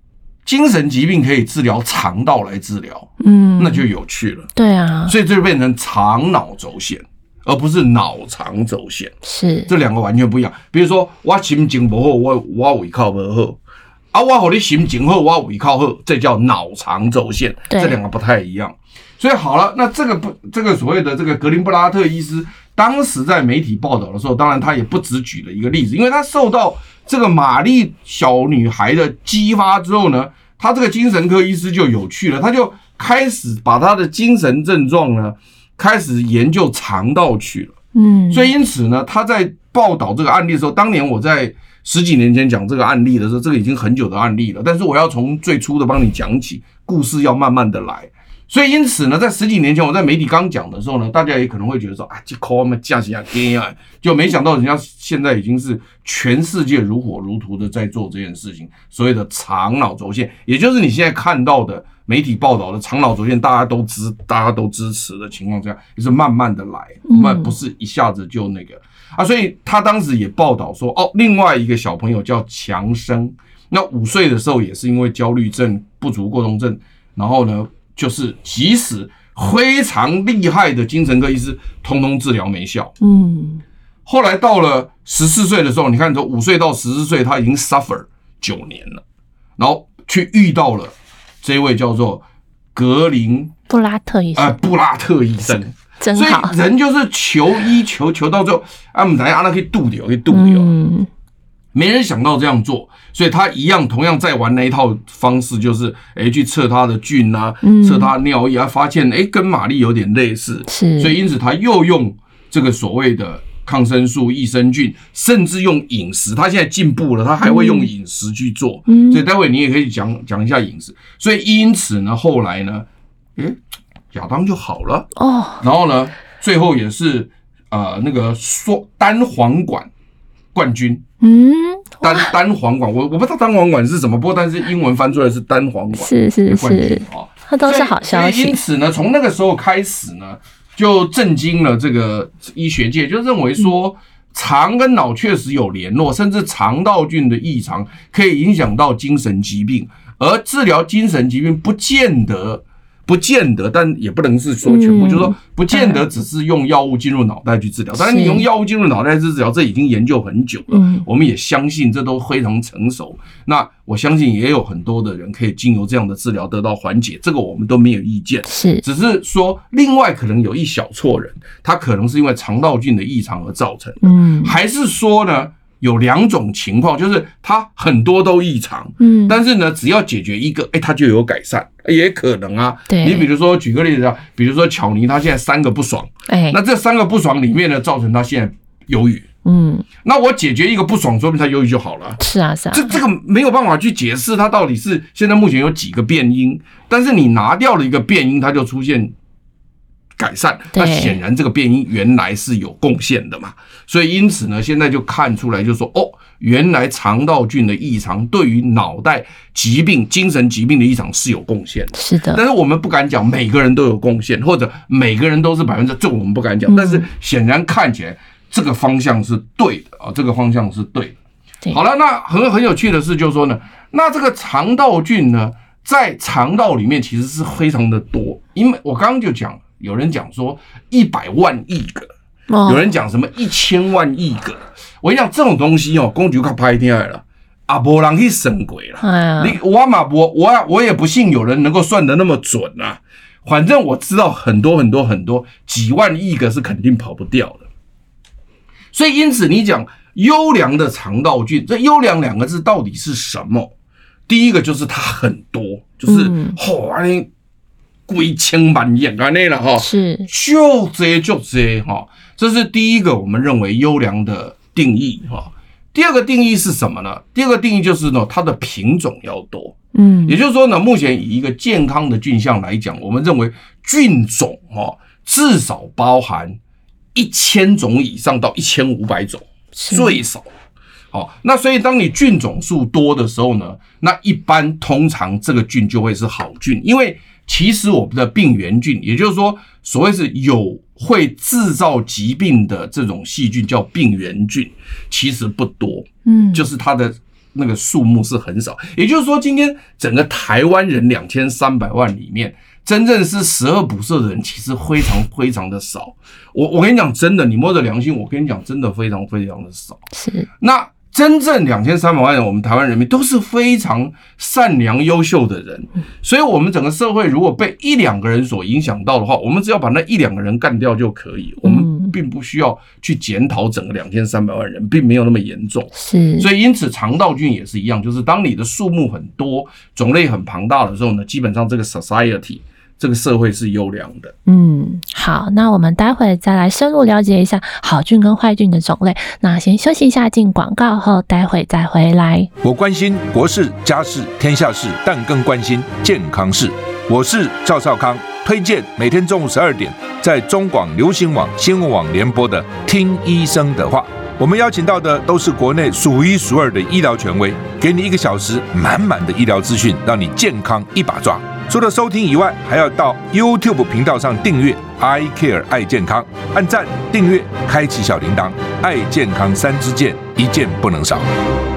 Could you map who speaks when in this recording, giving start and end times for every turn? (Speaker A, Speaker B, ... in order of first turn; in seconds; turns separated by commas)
Speaker A: 0.5-4.5, Speaker B: 3.2-3.9, Speaker B: 4.6-5.1, Speaker A: 5.1-9.1, Speaker B: 9.2-9.7, Speaker A: 9.7-13.6, Speaker A: 14.1-37.8, Speaker B: 17.7-18.0, Speaker B: 38.0-38.5, Speaker A: 38.3-82.9, Speaker B: 67.1-67.5, Speaker B: 83.0-83.6, Speaker A: 84.1-89.0, Speaker A: 89.6-92.2, Speaker A: 92.8-93.5, Speaker B: 93.7-94.6, Speaker A: 94.4-100.7, Speaker B: 96.0-96.5, Speaker B: 100.3-101.1, Speaker A: 101.7-123.6, Speaker B: 107.6-108.1, Speaker B: 110.7-111.2, Speaker B: 117.4-117.9, Speaker B: 118.9-119.2, Speaker A: 124.1-125.1, Speaker B: 125.2-125.6, Speaker A: 125.6-129.9, Speaker A: 130.5-131.0, Speaker B: 131.2-132.3, Speaker A: 132.0-189.3, Speaker B: 135.9-138.6, Speaker B: 154.6-156.0, Speaker B: 158.0-158.5, Speaker B: 160.7-161.1, Speaker B: 168.5-168.8, Speaker B: 174.0-174.5, Speaker B: 179.0-179.4, Speaker B: 182.9-183.3, Speaker B: 186.3-186.6, Speaker B: 189.4-189.8, Speaker A: 190.0-192.2, Speaker B: 192.2-193.0, Speaker A: 192.7-199.1, Speaker A: 200.2-221.2, Speaker B: 200.7-201.2, Speaker B: 211.9-212.4, Speaker B: 216.7-217.1, Speaker A: 221.7-232.1, Speaker B: 232.5-232.8, Speaker A: 232.7-247.7, Speaker B: 239.0-239.6, Speaker A: 248.9-253.7, Speaker A: 254.3-257.3, Speaker B: 256.1-256.6, Speaker A: 258.1-276.6, Speaker B: 259.8-260.3, Speaker B: 269.9-270.4, Speaker A: 277.1-280.5, Speaker B: 279.8-280.2, Speaker A: 281.1-310.0, Speaker B: 296.3-296.6, Speaker B: 310.1-310.5, Speaker A: 310.6-334.3, Speaker B: 321.6-322.1, Speaker B: 325.9-326.5, Speaker B: 334.5-342.5, Speaker C: 342.6-371.3